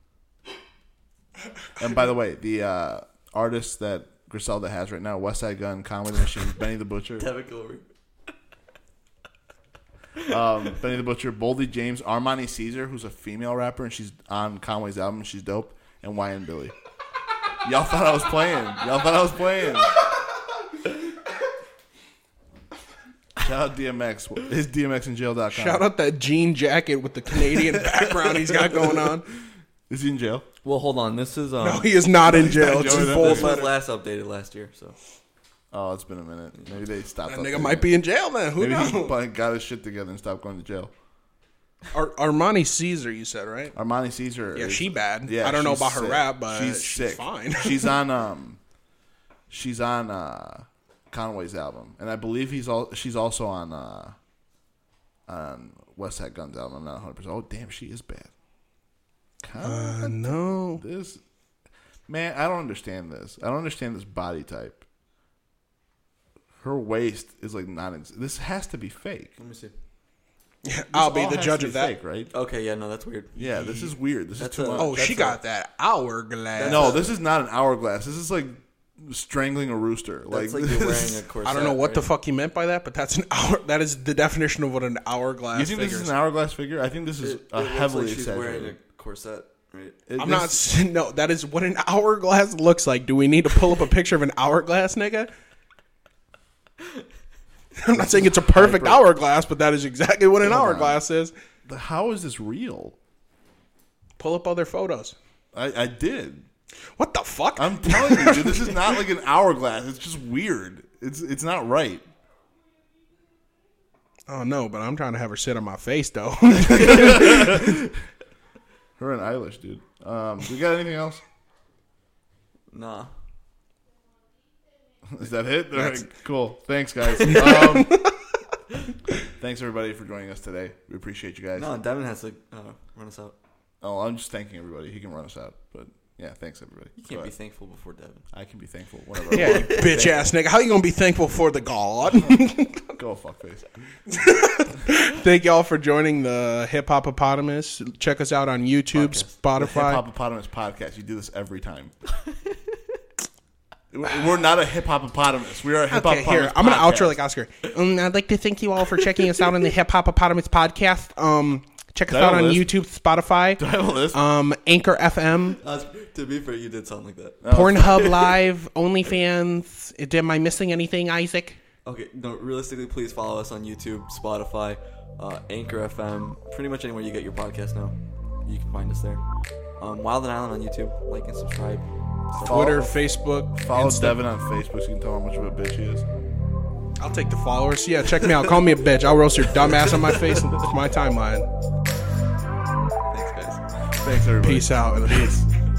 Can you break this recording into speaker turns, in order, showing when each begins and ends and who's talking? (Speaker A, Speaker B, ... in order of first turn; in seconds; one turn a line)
Speaker A: 1.8-7.3
Speaker B: 7.2-7.9
Speaker A: 10.3-16.8
Speaker A: 17.6-20.0
Speaker A: 23.4-25.9
Speaker C: 25.5-29.3
Speaker A: 29.9-30.5
Speaker B: 30.6-32.0
Speaker C: 31.6-33.7
Speaker A: 32.2-33.7
Speaker B: 32.6-35.0
Speaker A: 35.7-37.9
Speaker C: 37.3-39.2
Speaker A: 38.6-40.9
Speaker C: 41.9-43.8
Speaker A: 43.8-48.6
Speaker C: 44.5-48.0
Speaker A: 49.5-54.2
Speaker A: 55.3-58.3
Speaker A: 59.4-61.2
Speaker C: 59.6-60.8
Speaker A: 62.1-64.8
Speaker A: 66.6-69.3
Speaker B: 69.4-69.7
Speaker C: 70.6-71.9
Speaker A: 70.9-72.3
Speaker B: 72.3-73.4
Speaker A: 73.3-75.1
Speaker B: 74.4-75.4
Speaker C: 74.8-77.0
Speaker B: 76.5-77.1
Speaker A: 76.7-81.2
Speaker B: 80.3-82.1
Speaker C: 81.4-86.1
Speaker A: 85.5-88.8
Speaker B: 87.2-90.0
Speaker A: 90.1-90.6
Speaker C: 90.2-95.3
Speaker C: 97.8-101.3
Speaker A: 97.9-99.0
Speaker A: 100.4-101.0
Speaker A: 101.7-103.0
Speaker C: 104.2-105.2
Speaker A: 105.5-106.5
Speaker C: 107.0-108.9
Speaker A: 107.6-112.0
Speaker C: 114.3-117.6
Speaker A: 116.9-117.8
Speaker A: 119.0-121.2
Speaker B: 122.7-123.1
Speaker A: 125.0-128.1
Speaker C: 125.8-126.1
Speaker C: 127.5-128.1
Speaker A: 129.3-131.7
Speaker B: 131.6-133.4
Speaker A: 133.8-137.3
Speaker B: 137.0-138.3
Speaker A: 138.3-140.3
Speaker B: 139.3-140.2
Speaker C: 139.3-143.0
Speaker A: 142.1-142.4
Speaker A: 143.0-143.7
Speaker C: 144.1-150.0
Speaker B: 148.9-149.3
Speaker A: 149.6-151.9
Speaker B: 152.1-152.8
Speaker A: 153.9-157.2
Speaker C: 155.9-165.6
Speaker A: 162.1-162.7
Speaker A: 163.6-164.2
Speaker B: 165.6-168.3
Speaker A: 167.4-168.1
Speaker C: 167.5-171.6
Speaker B: 171.8-179.2
Speaker B: 179.8-182.9
Speaker A: 182.4-182.9
Speaker C: 182.4-184.2
Speaker A: 183.6-186.1
Speaker C: 187.0-191.5
Speaker B: 193.1-193.9
Speaker A: 194.0-195.5
Speaker C: 194.4-195.4